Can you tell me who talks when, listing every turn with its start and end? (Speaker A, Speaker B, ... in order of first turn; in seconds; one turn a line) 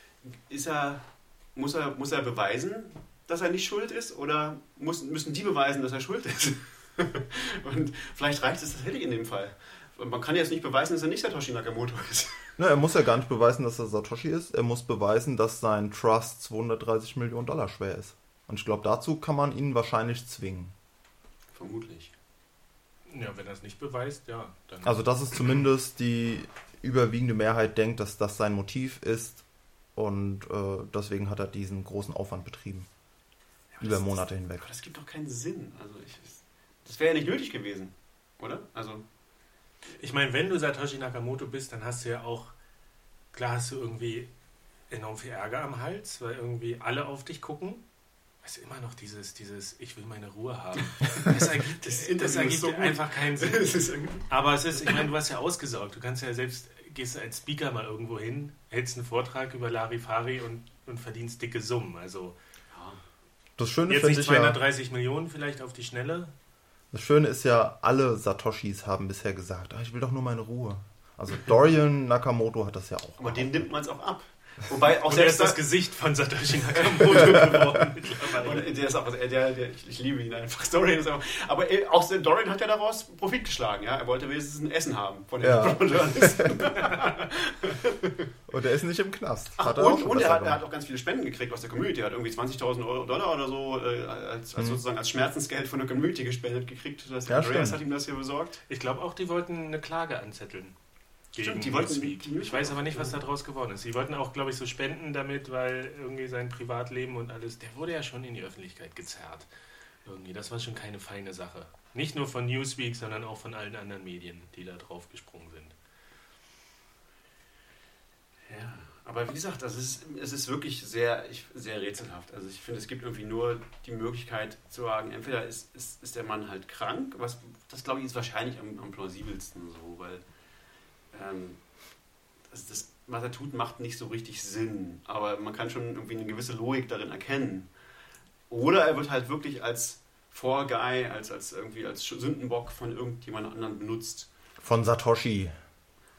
Speaker A: 0.2-1.0
Speaker A: 1.6-12.5
Speaker B: 12.6-20.7
Speaker A: 21.5-22.1
Speaker C: 23.1-25.0
Speaker B: 24.8-29.4
Speaker B: 30.0-32.9
Speaker A: 33.8-39.0
Speaker B: 33.8-34.7
Speaker C: 39.9-42.5
Speaker C: 43.3-44.3
Speaker C: 44.9-47.8
Speaker C: 48.4-53.7
Speaker A: 51.8-54.3
Speaker C: 54.3-62.4
Speaker A: 62.7-63.0
Speaker B: 63.6-64.6
Speaker C: 63.9-66.3
Speaker B: 66.9-73.5
Speaker A: 73.2-75.6
Speaker C: 75.1-78.7
Speaker A: 76.9-77.7
Speaker A: 78.2-88.3
Speaker B: 85.4-86.7
Speaker B: 88.5-90.6
Speaker A: 89.6-98.6
Speaker B: 97.3-97.8
Speaker C: 98.7-100.7
Speaker C: 101.3-109.5
Speaker A: 101.4-103.2
Speaker C: 110.0-115.7
Speaker A: 118.5-130.2
Speaker A: 131.1-131.7
Speaker A: 132.5-137.7
Speaker A: 138.5-144.3
Speaker B: 144.6-145.5